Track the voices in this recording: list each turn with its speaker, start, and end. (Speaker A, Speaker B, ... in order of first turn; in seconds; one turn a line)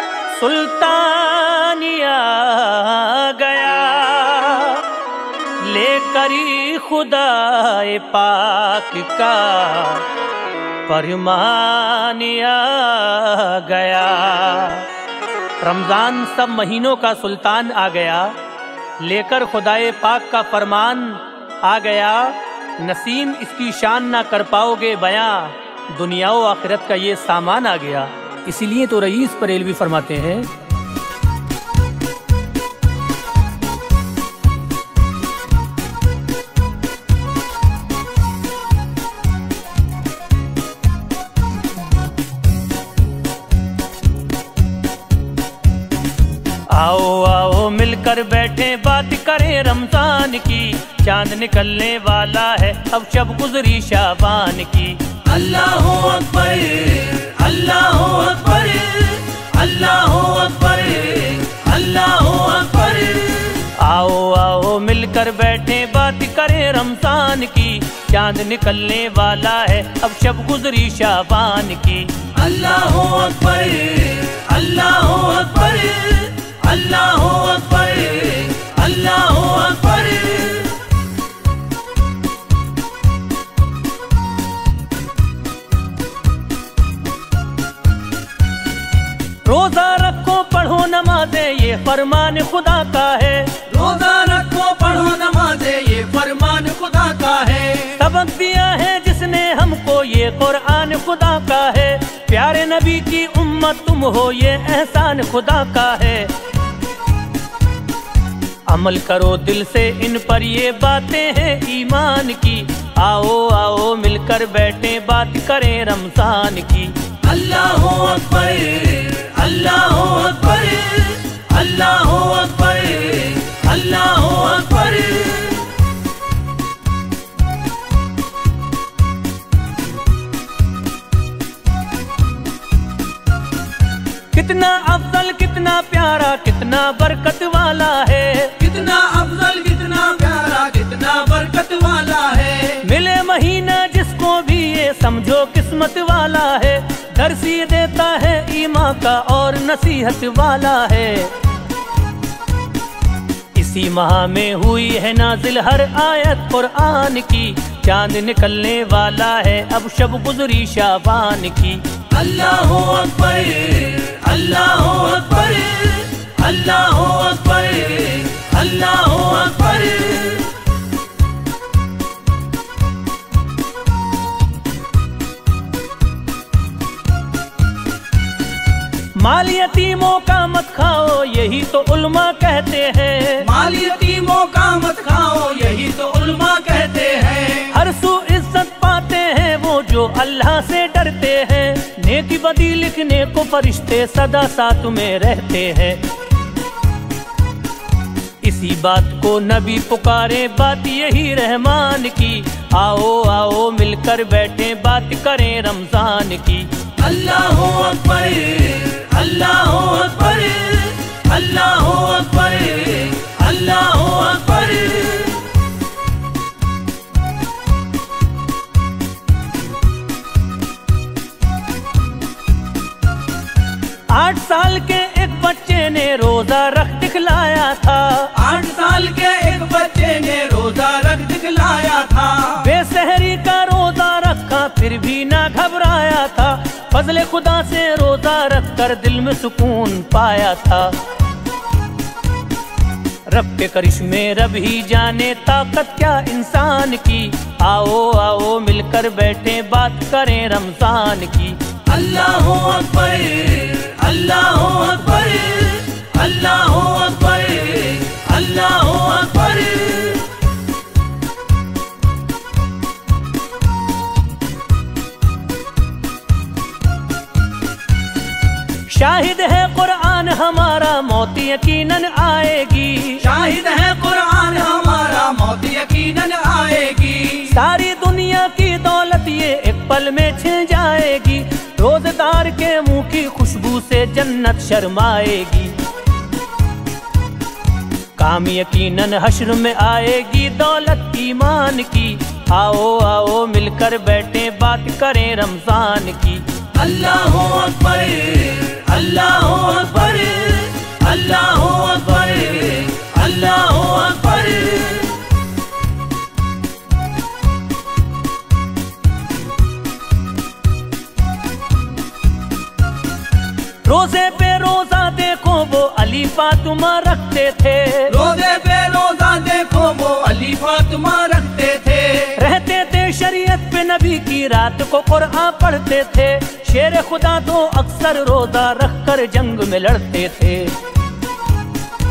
Speaker A: 0.3-4.9
Speaker A: 5.6-10.1
Speaker A: 10.9-14.9
Speaker A: 15.6-18.4
Speaker A: 19.0-30.5
Speaker A: 46.7-55.2
Speaker B: 55.2-63.6
Speaker A: 63.6-72.3
Speaker B: 72.3-80.8
Speaker A: 89.5-93.6
Speaker B: 93.7-98.0
Speaker A: 98.0-106.3
Speaker A: 108.7-117.1
Speaker B: 117.2-125.7
Speaker A: 134.3-138.6
Speaker B: 138.6-142.8
Speaker A: 142.8-151.3
Speaker A: 153.6-161.9
Speaker B: 162.1-170.5
Speaker A: 179.2-183.5
Speaker B: 183.4-187.8
Speaker A: 187.7-196.0
Speaker A: 198.4-206.7
Speaker B: 207.0-215.5
Speaker A: 224.1-228.3
Speaker B: 228.3-232.7
Speaker A: 232.6-241.0
Speaker A: 243.3-251.7
Speaker B: 251.8-260.3
Speaker A: 268.9-273.2
Speaker B: 273.2-277.5
Speaker A: 277.5-285.8
Speaker A: 288.2-296.5
Speaker B: 296.7-305.2
Speaker A: 313.9-318.2
Speaker B: 318.1-322.4
Speaker A: 322.4-330.8